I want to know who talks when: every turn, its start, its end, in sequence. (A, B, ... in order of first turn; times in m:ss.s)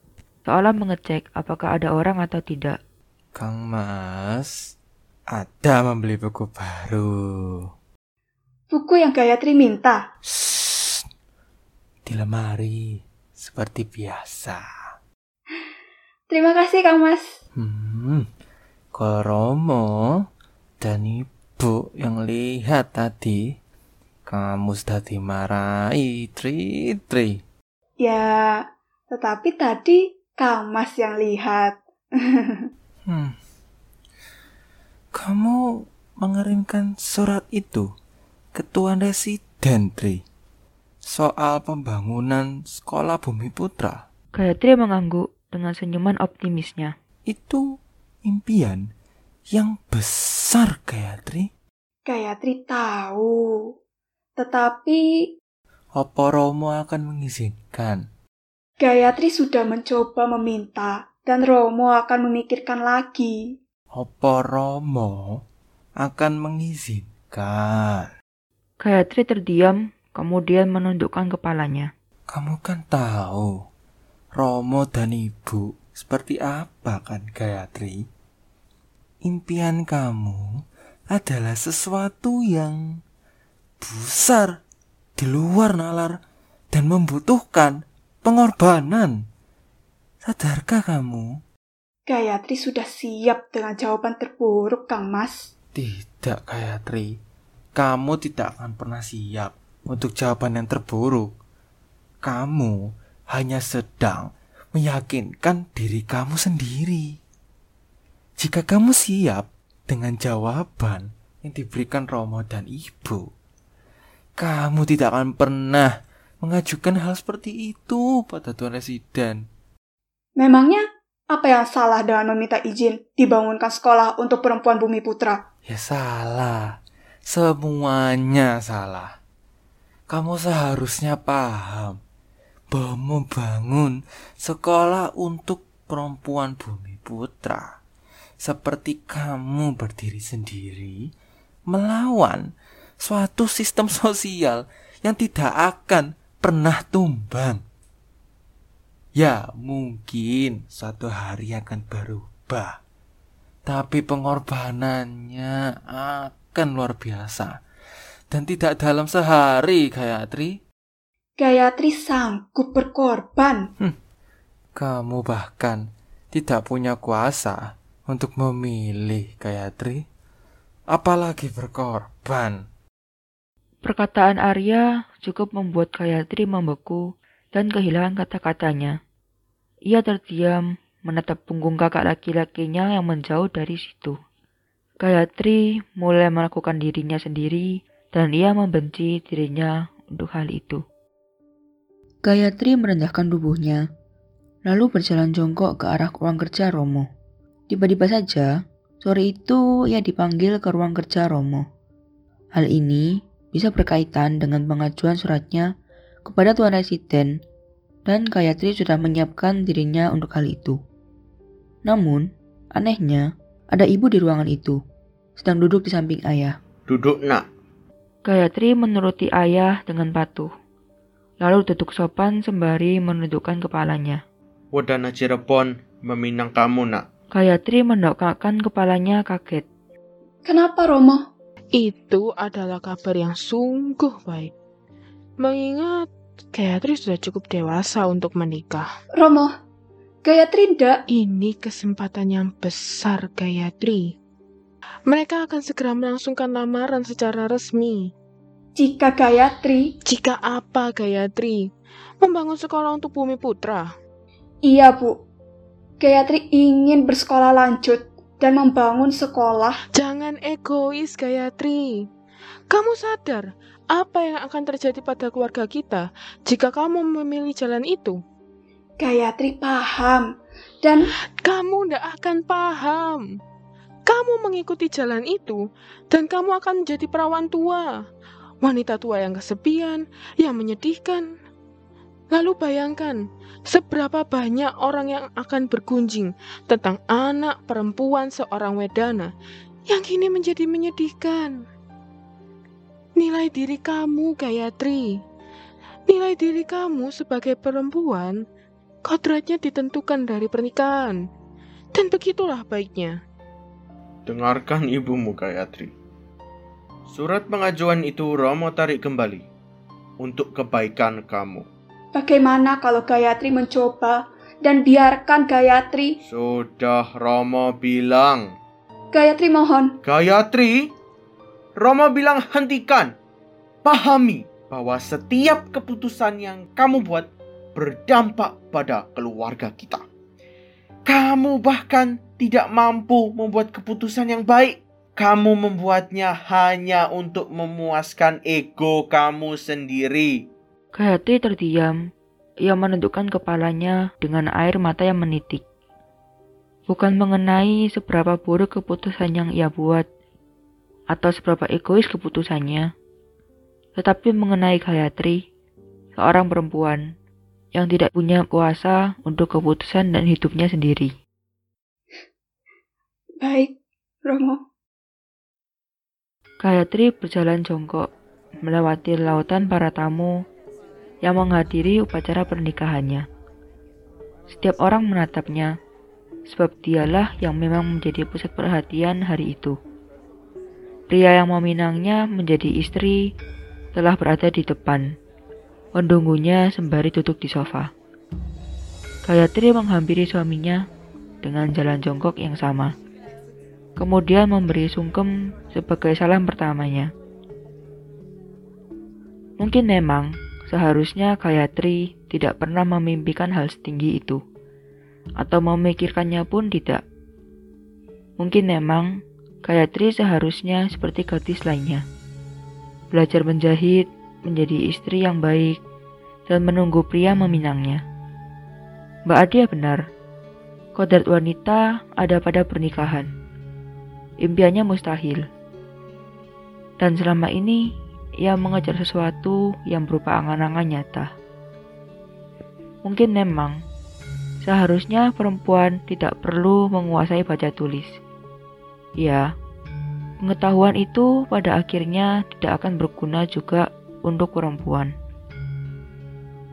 0:00.5-0:02.8 A
0:03.4-0:04.5 B
0:05.3-0:07.6 B
0:08.7-0:10.0 C
0:10.3-0:11.0 B
0:12.1-0:14.6 B
0:16.3-0:17.3 C
0:17.6-0:18.3 B
0:18.9-0:20.2 B
0:20.8-0:23.4 B
0:24.3-0:27.4 B
0:28.0-0:31.8 C
0:32.4-0:32.7 C
0:33.1-0:33.4 B
0:35.2-0:35.6 B
0:36.2-0:37.8 B
0:38.6-0:40.2 B
0:41.1-0:44.0 B
0:44.4-0:46.9 A
0:47.3-0:47.6 B
0:48.2-0:48.8 B
0:49.5-0:51.5 B
0:52.1-0:53.5 C
0:54.4-0:55.0 C
0:56.0-0:58.0 B
0:58.8-1:03.4 C
1:03.9-1:05.4 B
1:06.0-1:08.1 B
1:08.8-1:11.9 A
1:12.3-1:13.5 B
1:14.4-1:18.0 B
1:19.2-1:20.6 B
1:21.1-1:22.8 B
1:23.8-1:24.6 B
1:25.2-1:26.2 B
1:26.7-1:29.2 B
1:30.2-1:31.4 B
1:32.1-1:35.5 C
1:35.7-1:37.1 B
1:37.8-1:41.3 B
1:42.2-1:42.8 B
1:43.3-1:47.1 B
1:48.4-1:53.2 B
1:54.4-1:59.4 B
2:00.4-2:05.4 C
2:05.7-2:09.1 B
2:10.1-2:12.0 B
2:12.7-2:17.7 B
2:18.4-2:21.0 B
2:21.7-2:22.5 B
2:23.0-2:27.6 B
2:29.2-2:32.8 B
2:33.7-2:37.6 B
2:38.3-2:40.6 B
2:41.4-2:43.7 C
2:44.8-2:50.1 B
2:50.9-2:52.6 B
2:53.8-2:59.0 A
2:59.9-3:04.2 A
3:05.0-3:10.8 A
3:12.3-3:13.8 A
3:14.7-3:17.0 A
3:17.7-3:18.5 A
3:19.0-3:21.6 A
3:22.6-3:25.7 A
3:26.3-3:27.3 A
3:28.1-3:30.8 A
3:31.9-3:34.8 A
3:35.4-3:36.5 A
3:36.9-3:37.4 D
3:38.3-3:40.5 A
3:41.4-3:44.2 A
3:44.8-3:47.0 D
3:47.4-3:49.7 A
3:50.5-3:51.2 C
3:51.8-3:54.5 E
3:55.4-3:58.9 E
3:59.2-3:59.5 C
4:00.2-4:01.0 C
4:01.1-4:04.1 E
4:05.1-4:08.1 E
4:08.8-4:09.9 C
4:10.1-4:11.7 E
4:12.2-4:13.9 E
4:14.6-4:15.2 C
4:16.0-4:19.8 C
4:20.0-4:22.0 E
4:22.7-4:28.2 E
4:29.0-4:30.3 C
4:31.4-4:33.2 E
4:34.1-4:37.9 E
4:38.6-4:41.3 E
4:42.3-4:49.3 E
4:49.9-4:51.6 E
4:53.2-4:55.2 E
4:56.1-4:58.4 E
4:59.0-5:01.2 E
5:02.0-5:03.2 E
5:07.2-5:09.4 D
5:10.2-5:11.6 D
5:12.1-5:16.1 C
5:16.3-5:18.4 D
5:19.1-5:19.9 C
5:20.1-5:20.7 D
5:21.8-5:23.1 D
5:23.8-5:30.0 D
5:31.1-5:40.4 D
5:41.0-5:42.0 A
5:42.7-5:45.6 A
5:46.9-5:50.0 A
5:51.1-5:52.8 A
5:54.0-5:55.4 A
5:56.2-5:57.0 A
5:57.8-6:01.1 A
6:03.4-6:03.7 C
6:04.2-6:04.6 C
6:06.6-6:08.0 A
6:08.6-6:10.3 A
6:11.2-6:13.2 A
6:14.5-6:15.7 A
6:16.5-6:19.8 A
6:21.1-6:23.2 A
6:24.0-6:25.1 A
6:26.0-6:27.9 A
6:29.3-6:30.8 A
6:31.4-6:32.9 A
6:34.0-6:37.1 A
6:39.6-6:44.4 A
6:45.4-6:47.0 A
6:48.4-6:49.1 A
6:49.6-6:52.0 A
6:53.1-6:55.8 A
6:56.5-6:58.0 A
6:59.3-7:00.0 A
7:01.0-7:03.3 A
7:04.4-7:05.4 A
7:07.0-7:07.8 A
7:08.4-7:11.3 A
7:13.0-7:13.8 A
7:14.6-7:18.2 A
7:20.4-7:25.1 A